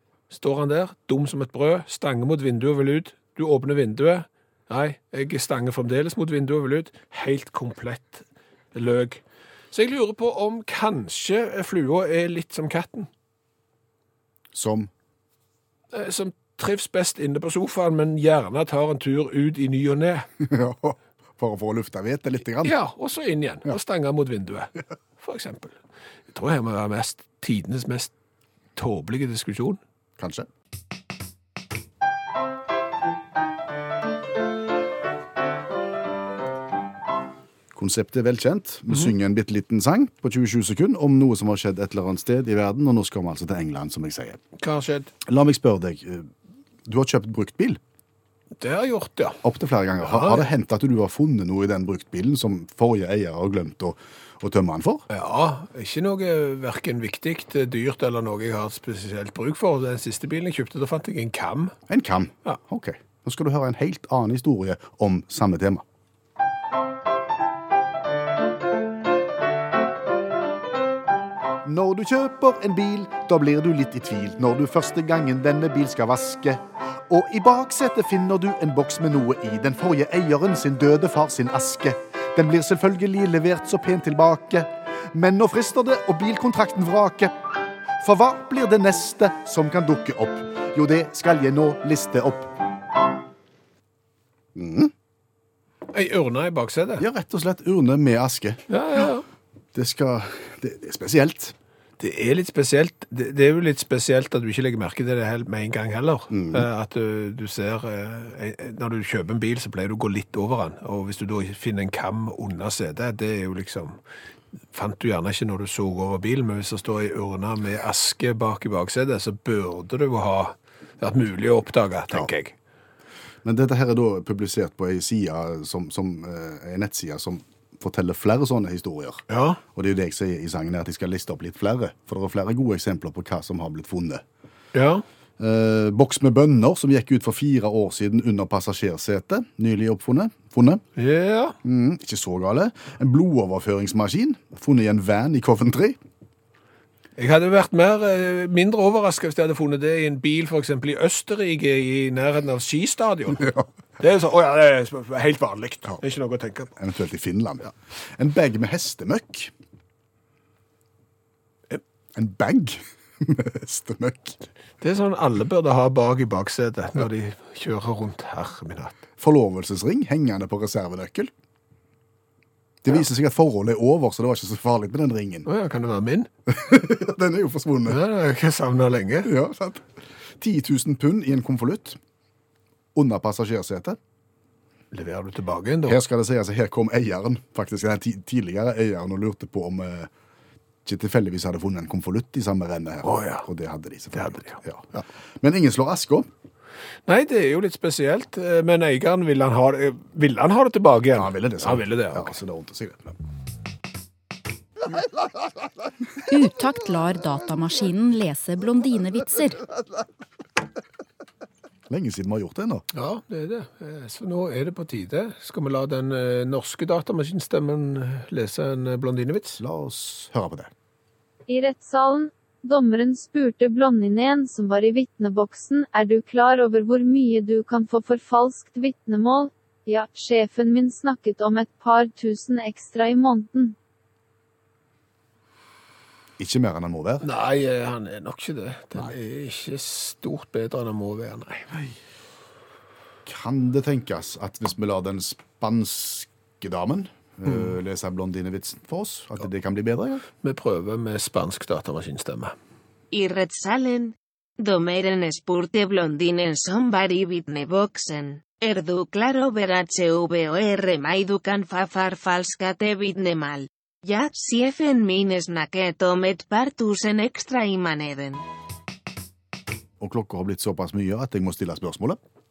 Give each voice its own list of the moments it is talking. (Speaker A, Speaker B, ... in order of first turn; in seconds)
Speaker A: 0.3-13.1, 15.9-20.3, 22.6-25.8, 26.3-28.1, 28.8-29.8, 44.6-45.1, 48.6-49.4, 50.0-50.5, 55.1-61.8, 95.9-97.1, 98.7-99.3, 102.0-114.0, 114.7-122.5, 129.3-129.6, 134.7-135.0, 141.0-141.6, 147.2-156.7, 164.8-169.0, 175.4-176.3, 177.9-179.3, 184.9-186.0, 193.0-193.5, 194.1-194.6, 197.1-202.4, 212.9-219.6, 237.2-241.8, 250.4-252.6
Speaker B: 14.5-14.9, 20.4-22.8, 30.2-30.5, 37.7-44.4, 45.2-46.3, 46.9-47.8, 49.4-55.1, 61.9-65.8, 71.6-87.4, 88.0-92.5, 94.5-94.9, 97.0-98.6, 99.7-101.5, 106.3-106.7, 123.4-134.2, 135.4-140.8, 141.6-146.0, 153.4-153.7, 156.8-159.5, 162.2-164.4, 169.2-171.3, 172.8-175.5, 176.5-178.0, 179.2-182.0, 182.9-184.0, 185.9-190.1, 190.8-196.3, 201.1-203.2, 211.9-212.8, 219.6-220.7, 236.4-237.2, 243.3-250.2, 270.0-272.2
Speaker C: 206.3-209.7
Speaker D: 221.5-233.8
Speaker E: 253.1-268.4